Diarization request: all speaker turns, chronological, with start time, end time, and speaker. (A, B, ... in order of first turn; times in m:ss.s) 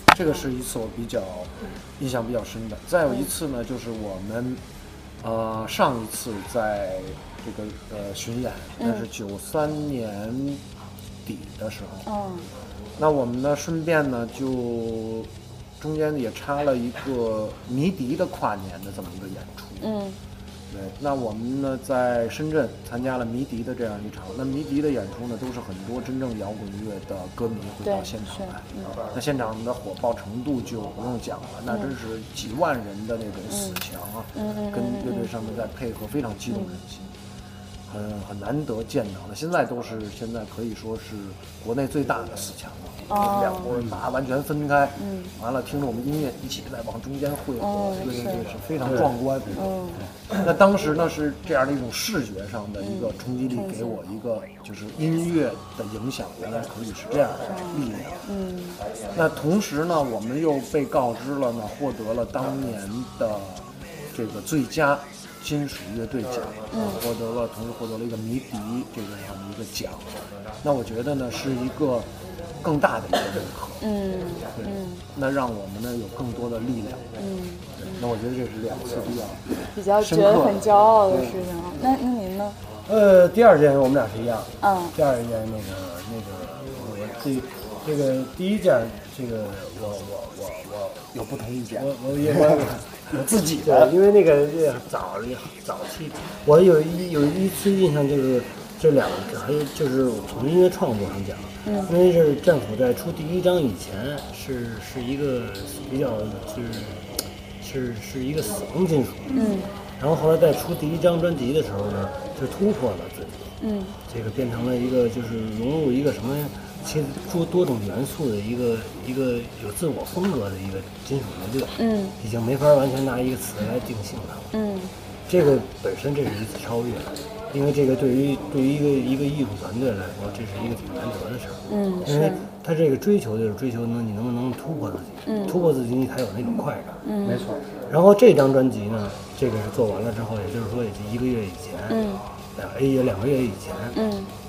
0:00.1-0:04.6 A
0:05.2-0:10.6 A
0:08.8-0:09.1 B
0:11.2-0:12.1 A
0:12.1-0:12.5 B
0:13.0-0:20.0 A
0:19.8-0:20.2 B
0:20.7-0:37.2 A
0:27.8-0:29.0 B
0:33.5-0:33.8 B
0:34.4-0:35.3 B
0:37.9-0:49.8 A
0:43.1-0:43.8 B
0:45.0-0:45.3 B
0:47.6-0:48.5 B
0:48.8-0:49.1 C
0:49.5-0:50.0 B
0:50.3-0:58.3 A
0:52.8-0:54.0 B
0:57.5-0:58.8 B
0:59.1-1:13.9 A
1:06.7-1:07.0 B
1:13.8-1:15.0 B
1:14.6-1:17.2 A
1:17.2-1:18.0 B
1:17.8-1:21.5 A
1:19.7-1:22.6 B
1:22.9-1:31.1 C
1:24.6-1:25.0 B
1:31.1-1:33.9 A
1:31.7-1:49.4 C
1:41.6-1:41.9 B
1:49.3-1:49.7 B
1:50.0-1:53.6 C
1:53.6-1:54.0 B
1:54.1-2:04.5 C
2:01.8-2:02.2 B
2:04.5-2:04.9 B
2:05.3-2:17.0 C
2:11.7-2:12.5 B
2:15.3-2:15.6 B
2:17.0-2:17.5 B
2:17.2-2:17.6 A
2:17.9-2:24.0 C
2:21.9-2:22.2 B
2:23.9-2:24.3 B